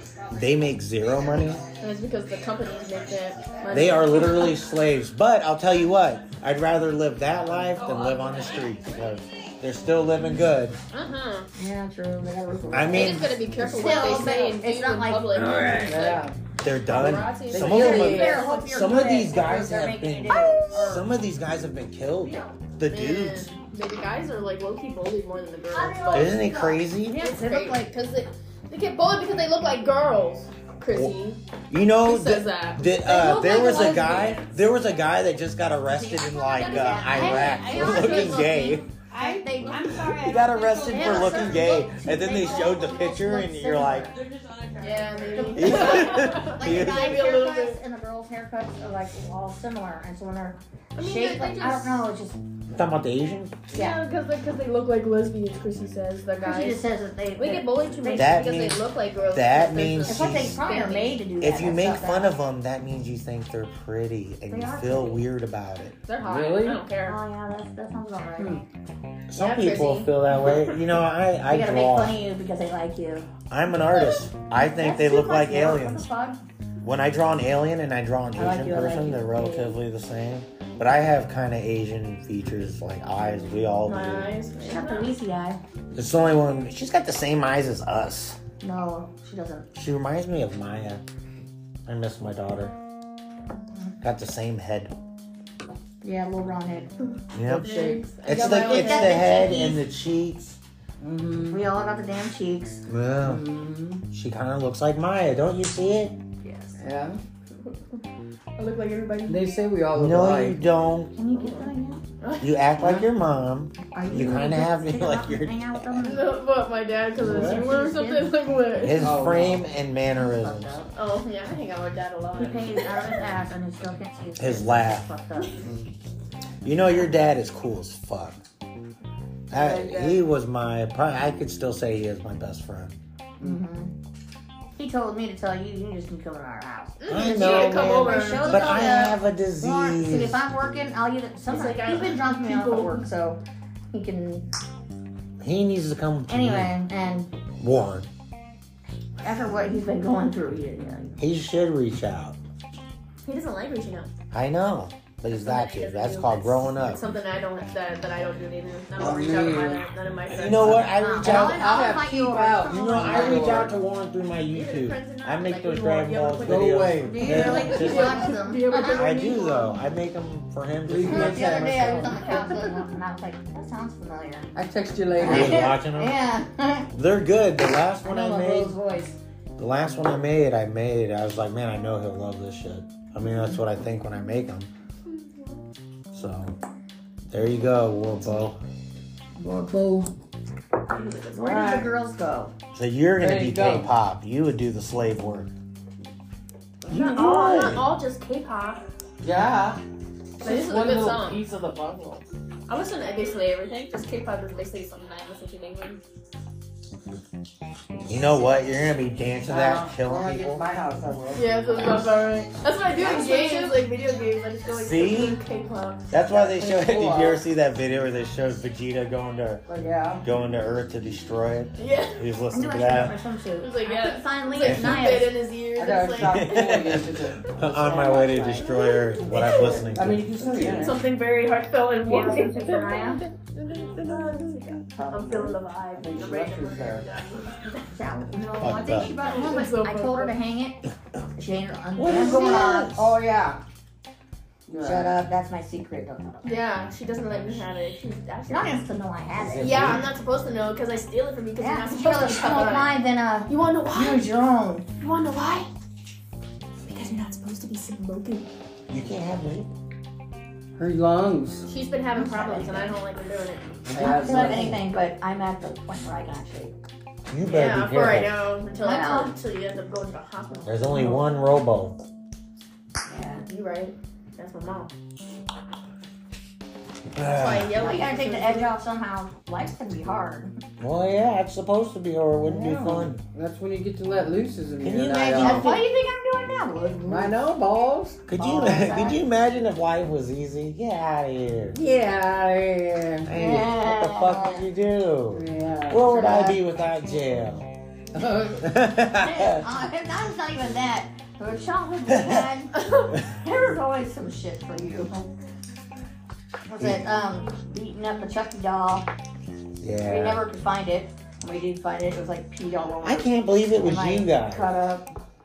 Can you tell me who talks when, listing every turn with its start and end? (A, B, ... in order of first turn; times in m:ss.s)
0:00.3-0:01.6 A
0:01.8-0:04.6 B
0:03.7-0:10.8 A
0:07.8-0:08.2 C
0:10.9-0:11.5 B
0:11.6-0:15.3 D
0:12.7-0:13.4 A
0:12.9-0:16.2 B
0:15.3-0:16.1 C
0:15.8-0:16.3 E
0:16.6-0:23.5 A
0:16.9-0:19.0 B
0:17.5-0:18.4 E
0:17.6-0:21.1 D
0:22.2-0:22.5 D
0:22.9-0:26.4 B
0:25.7-0:27.9 D
0:26.1-0:27.2 A
0:27.1-0:31.4 B
0:31.7-0:38.9 A
0:32.0-0:34.4 B
0:36.1-0:38.6 B
0:36.6-0:44.1 D
0:39.6-0:41.6 C
0:39.8-0:44.1 A
0:44.1-0:45.6 C
0:44.8-0:47.8 B
0:45.3-0:52.4 D
0:45.6-0:47.2 A
0:50.9-0:52.1 B
0:52.7-0:53.5 A
0:53.7-1:01.2 B
0:53.7-0:54.0 D
0:56.4-0:58.5 D
0:58.1-1:00.6 A
1:00.0-1:02.4 D
1:01.4-1:05.9 A
1:04.5-1:05.2 D
1:06.0-1:07.2 B
1:06.2-1:06.8 E
1:07.0-1:08.6 D
1:08.4-1:08.6 E
1:09.3-1:12.2 A
1:09.4-1:10.9 B
1:11.5-1:13.3 D
1:13.5-1:16.1 A
1:13.9-1:16.4 D
1:16.8-1:24.4 A
1:18.4-1:19.8 D
1:23.8-1:25.1 B
1:24.6-1:25.6 D
1:25.9-1:28.4 A
1:28.6-1:29.7 D
1:29.7-1:31.0 A
1:31.8-1:32.7 A
1:34.0-1:34.9 A
1:36.0-1:36.9 D
1:37.3-1:37.7 A
1:37.4-1:38.0 E
1:37.6-1:39.7 B
1:38.2-1:40.6 A
1:38.3-1:39.8 D
1:41.0-1:41.7 E
1:41.5-1:42.8 D
1:42.9-1:43.4 A
1:43.2-1:44.0 E
1:44.1-1:46.1 A
1:46.4-1:46.8 D
1:46.8-1:47.2 E
1:47.6-1:48.0 B
1:48.6-1:49.5 B
1:49.2-1:50.6 E
1:49.9-1:51.1 A
1:51.1-1:52.0 D
1:51.4-1:51.7 B
1:52.2-1:52.5 B
1:52.4-1:55.8 A
1:52.8-1:53.0 E
1:53.9-1:56.3 D
1:54.1-1:54.4 E
1:56.0-1:59.1 B
1:57.2-1:57.6 E
1:57.3-1:58.3 D
1:58.8-2:00.7 A
1:59.0-1:59.7 E
2:00.1-2:00.9 D
2:00.9-2:03.1 B
2:02.4-2:05.6 D
2:04.4-2:05.1 A
2:05.6-2:05.9 E
2:06.6-2:08.4 A
2:09.5-2:12.9 A
2:09.5-2:10.2 E
2:13.4-2:13.9 D
2:14.8-2:23.4 D
2:17.0-2:18.9 B
2:17.1-2:20.4 A
2:21.5-2:23.1 B
2:23.9-2:24.5 D
2:25.4-2:26.7 A
2:26.3-2:27.3 D
2:27.6-2:28.1 A
2:29.2-2:31.2 D
2:31.2-2:32.4 A
2:33.2-2:34.1 B
2:34.3-2:37.0 A
2:35.3-2:40.9 B
2:39.0-2:39.8 E
2:40.3-2:41.9 A
2:40.5-2:43.8 E
2:40.8-2:43.7 D
2:42.6-2:48.3 A
2:44.5-2:46.8 B
2:46.4-2:48.0 E
2:47.0-2:49.2 D
2:47.4-2:49.8 B
2:48.9-2:52.2 A
2:50.8-2:52.4 E
2:51.0-2:54.5 D
2:54.5-2:55.7 E
2:55.2-2:56.9 D
2:55.2-2:56.2 A
2:56.9-2:58.8 A
2:58.0-2:59.2 D
2:59.6-3:04.7 A
3:06.1-3:06.6 A
3:07.3-3:08.6 A
3:09.4-3:10.1 E
3:11.0-3:12.5 D
3:11.4-3:11.9 E
3:12.7-3:15.5 A
3:13.2-3:13.9 E
3:16.8-3:17.3 E
3:16.9-3:18.8 B
3:16.9-3:17.9 A
3:19.2-3:19.8 E
3:20.4-3:22.2 E
3:20.4-3:21.4 B
3:22.7-3:26.0 B
3:28.1-3:30.6 A
3:29.4-3:31.4 E
3:31.3-3:36.1 B
3:32.9-3:33.8 D
3:34.7-3:35.4 A
3:36.1-3:39.6 A
3:36.4-3:37.4 E
3:39.6-3:40.2 E
3:40.2-3:43.2 A
3:41.8-3:42.2 B
3:42.5-3:45.4 D
3:43.6-3:47.0 B
3:44.6-3:45.0 A
3:45.8-3:51.0 E
3:46.2-3:50.3 A
3:48.6-3:49.8 B
3:50.4-3:57.8 B
3:52.0-3:53.2 D
3:54.0-3:55.5 D
3:55.9-3:57.0 E
3:57.9-4:00.8 D
3:58.6-3:59.1 A
3:59.2-4:00.3 B
4:01.4-4:03.0 D
4:02.0-4:03.2 A
4:02.1-4:03.6 E
4:04.7-4:05.1 E
4:04.8-4:06.6 D
4:06.4-4:08.9 B
4:08.5-4:09.8 D
4:09.3-4:10.1 A
4:09.6-4:14.3 B
4:11.6-4:14.8 D
4:15.0-4:15.7 B
4:16.8-4:18.4 D
4:18.9-4:19.7 A
4:20.8-4:21.6 E
4:21.6-4:23.7 B
4:22.1-4:23.0 D
4:23.9-4:24.7 E
4:24.0-4:26.7 D
4:24.0-4:24.8 A
4:27.3-4:28.4 A
4:27.4-4:31.2 B
4:28.8-4:29.3 D
4:30.6-4:32.0 A
4:33.1-4:33.4 D
4:33.4-4:34.9 B
4:37.1-4:37.7 A
4:37.2-4:38.7 B
4:37.7-4:40.5 D
4:40.8-4:43.2 A
4:42.4-4:45.8 E
4:44.8-4:45.8 A
4:45.3-4:47.3 D
4:47.1-4:48.2 E
4:48.3-4:51.8 A
4:48.3-4:49.2 D
4:51.7-4:53.6 E
4:53.3-4:57.7 A
4:53.3-4:54.6 D
4:55.3-4:56.3 E
4:56.0-4:56.6 D
4:58.1-4:58.6 E
4:58.6-4:59.6 A
4:59.1-5:02.7 D
5:02.1-5:02.5 A
5:02.7-5:03.1 B
5:03.3-5:05.3 D
5:06.7-5:09.1 D
5:09.8-5:10.4 A
5:10.0-5:15.1 D
5:13.0-5:14.7 A